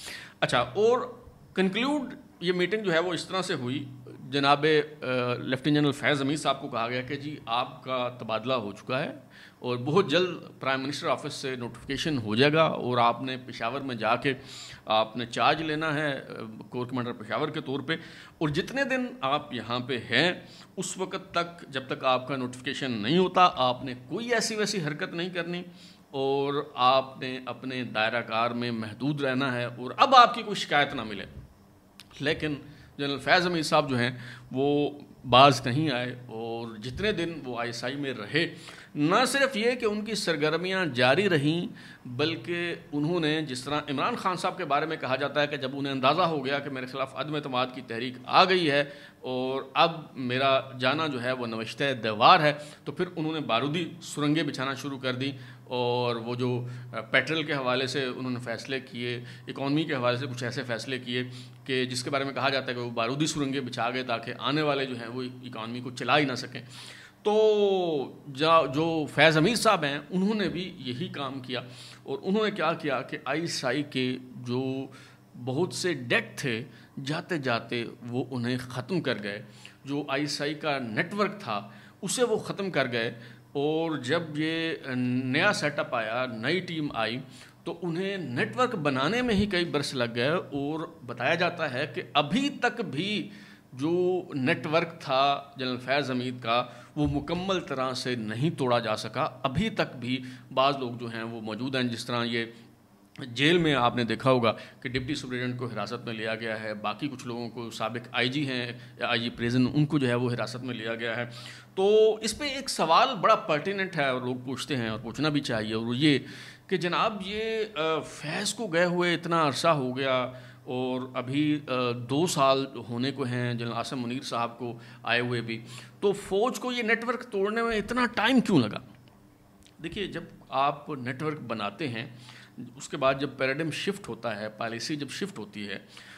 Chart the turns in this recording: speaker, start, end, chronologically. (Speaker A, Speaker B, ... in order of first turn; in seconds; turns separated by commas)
Speaker A: 0.4-31.3, Speaker A: 32.2-66.7, Speaker A: 67.2-102.5, Speaker A: 103.2-128.8, Speaker A: 129.8-135.8